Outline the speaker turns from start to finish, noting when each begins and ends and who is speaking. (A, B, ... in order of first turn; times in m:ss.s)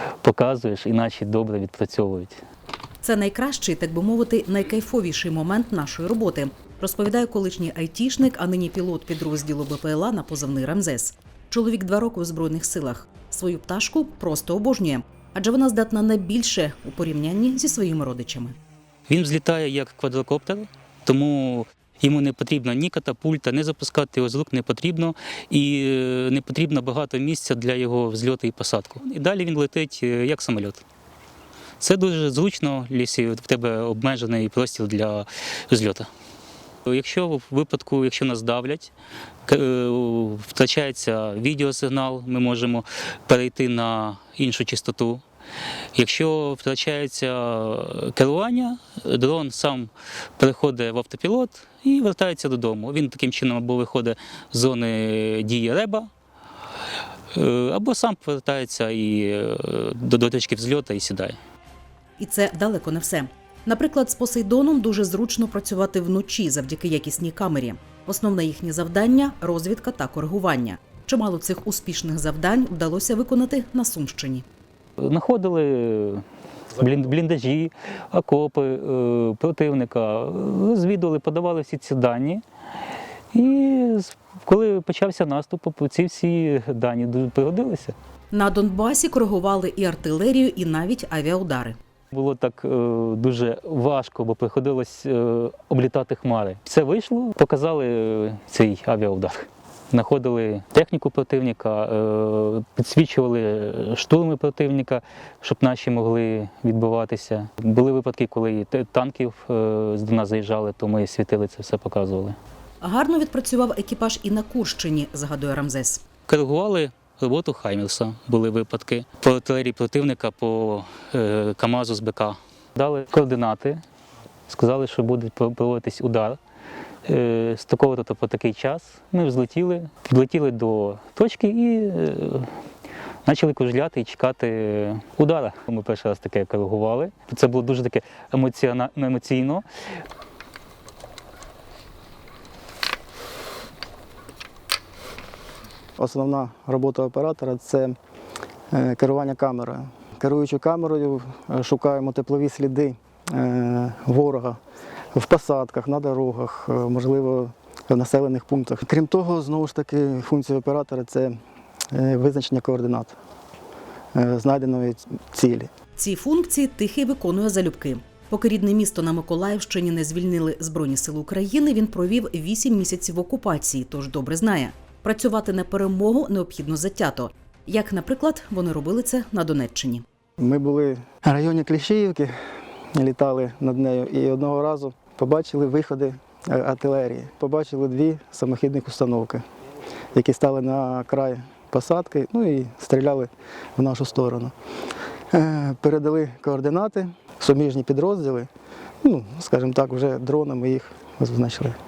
0:00.2-0:02.4 A
0:03.0-0:18.6 B
0:19.1-0:30.8 A
0:31.8-0:36.1 A
0:36.8-0:38.9 A
0:39.5-0:45.2 A
0:45.9-0:56.1 A
0:57.3-1:01.4 A
1:02.2-1:14.4 B
1:15.0-1:22.4 A
1:23.3-1:28.0 A
1:28.3-1:31.8 B
1:32.1-1:52.4 A
1:52.8-1:56.1 B
1:56.3-2:03.8 A
2:04.5-2:06.4 A
2:07.1-2:12.5 A
2:13.2-2:19.7 A
2:26.0-2:28.0 C
2:28.7-2:34.6 C
2:35.1-2:41.4 C
2:41.9-2:43.1 C
2:44.1-2:45.7 C
2:46.0-3:00.0 B
3:00.4-3:02.3 C
3:03.0-3:09.4 C
3:10.1-3:14.5 C
3:15.3-3:18.5 C
3:19.0-3:21.8 C